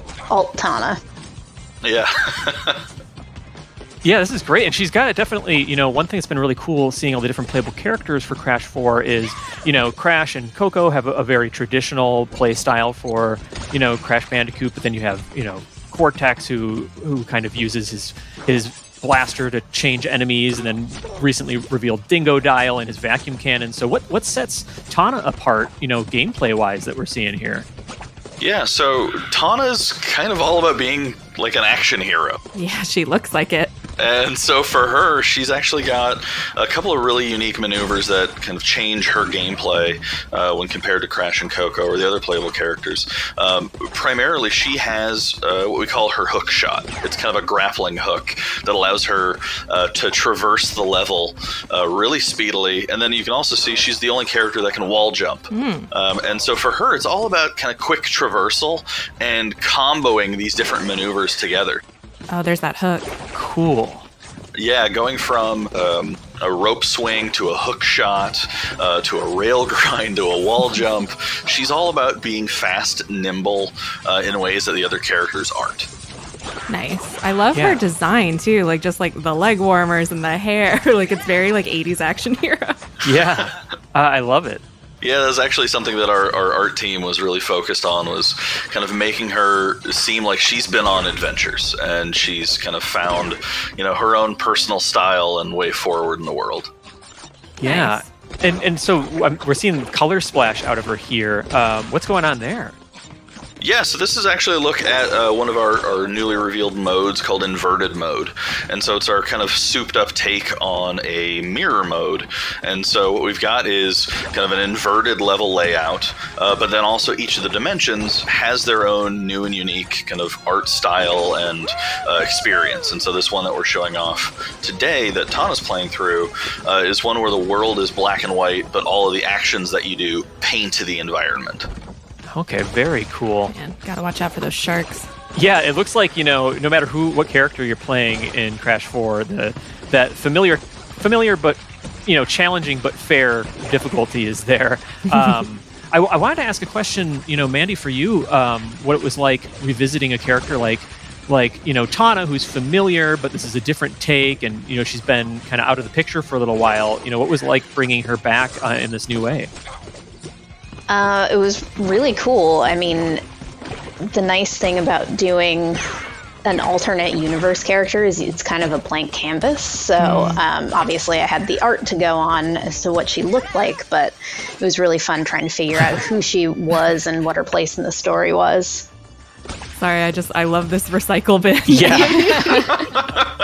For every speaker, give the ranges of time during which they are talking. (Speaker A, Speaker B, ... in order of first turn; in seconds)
Speaker A: 0.3-1.0, 160.9-163.2, 164.0-165.8, 166.4-178.9, 181.9-182.8
Speaker B: 1.8-2.8, 28.4-32.4, 34.0-61.8, 64.5-75.9, 83.1-83.5, 85.0-96.7, 103.6-131.7
Speaker C: 4.0-27.6, 63.3-64.0, 77.5-77.8, 83.0-84.6, 97.6-102.8, 132.2-133.5, 135.3-159.5, 181.7-182.3
Speaker D: 32.5-33.7, 55.5-55.9, 62.3-63.1, 76.7-82.8, 97.6-98.1, 133.5-135.1, 145.1-145.4, 170.0-170.4, 179.8-182.8